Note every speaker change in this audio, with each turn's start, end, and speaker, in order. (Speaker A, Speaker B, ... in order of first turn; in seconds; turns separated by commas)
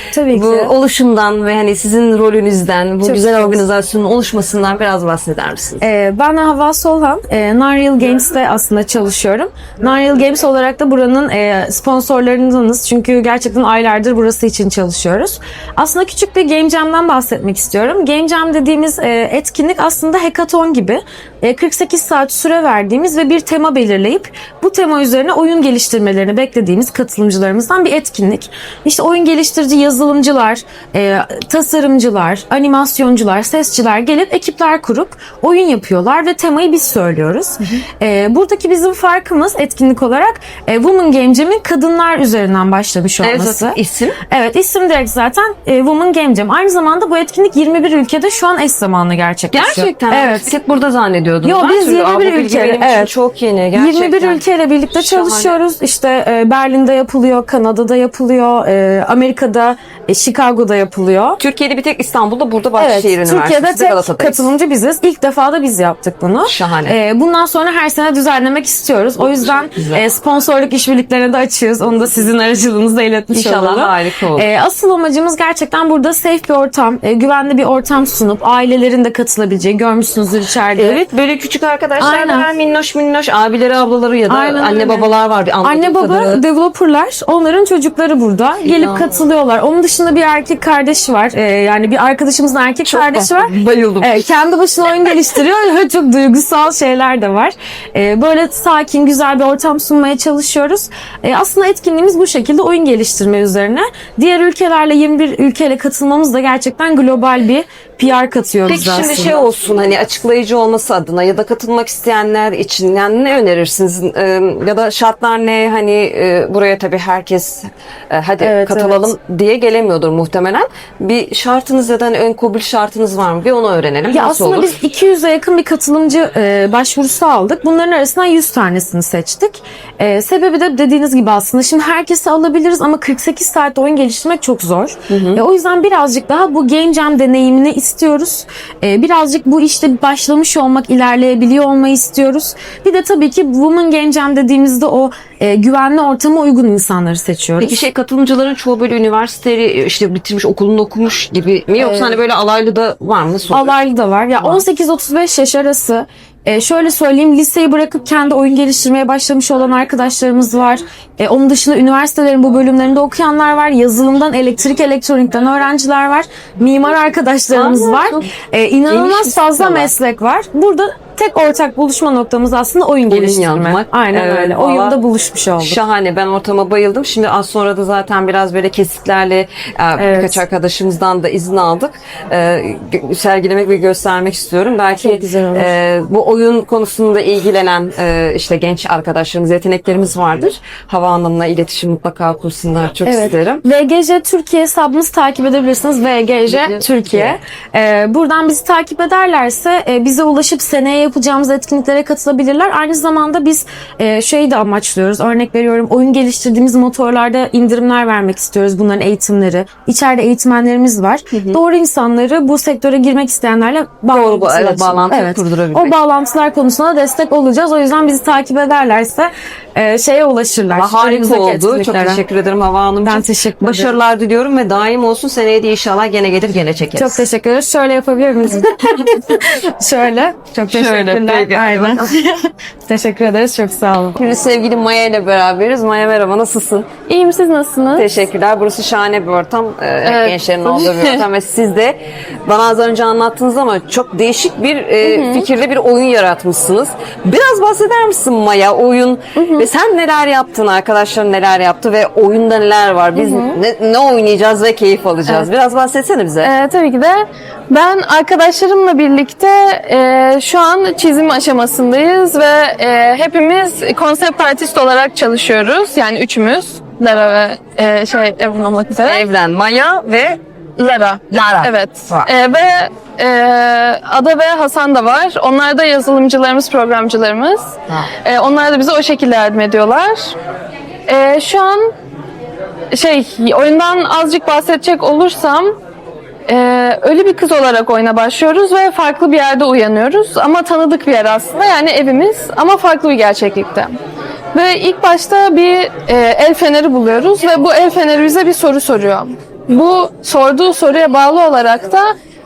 Speaker A: 0.1-0.7, Speaker B: 0.3-5.8, Speaker A: 3.0-3.6, Speaker A: 5.8-43.8, Speaker B: 43.2-44.2, Speaker A: 44.3-50.5, Speaker B: 49.5-54.4, Speaker A: 51.4-53.1, Speaker A: 53.7-61.4, Speaker B: 54.9-55.5, Speaker B: 61.4-64.5, Speaker A: 62.8-81.0, Speaker B: 66.4-67.0, Speaker B: 69.8-70.0, Speaker B: 73.3-74.5, Speaker B: 80.7-86.4, Speaker A: 82.0-82.5, Speaker A: 84.3-109.3, Speaker B: 88.6-89.2, Speaker B: 92.8-94.2, Speaker B: 108.7-124.7, Speaker A: 118.4-119.1, Speaker A: 124.1-147.8, Speaker B: 135.1-135.4, Speaker B: 147.6-153.7, Speaker A: 151.8-152.2, Speaker A: 153.5-175.8, Speaker B: 167.5-168.3, Speaker B: 168.9-169.9, Speaker B: 173.1-175.0, Speaker B: 175.6-193.6, Speaker A: 180.0-180.4, Speaker A: 185.0-185.7, Speaker A: 193.0-222.2, Speaker B: 196.5-197.4, Speaker B: 211.3-211.6, Speaker B: 214.1-216.0, Speaker B: 220.7-227.2, Speaker A: 223.0-223.9, Speaker A: 226.9-234.2, Speaker B: 230.7-232.1, Speaker B: 234.2-236.9, Speaker C: 237.1-238.2, Speaker B: 237.9-256.5, Speaker C: 240.0-241.2, Speaker C: 245.0-245.5, Speaker C: 249.3-249.7, Speaker C: 253.1-253.6, Speaker C: 256.4-269.3, Speaker B: 269.0-270.4, Speaker C: 270.8-277.7, Speaker B: 271.3-272.3, Speaker C: 278.2-280.3, Speaker C: 281.1-281.9, Speaker C: 282.9-285.7, Speaker C: 286.5-293.9, Speaker C: 294.5-302.1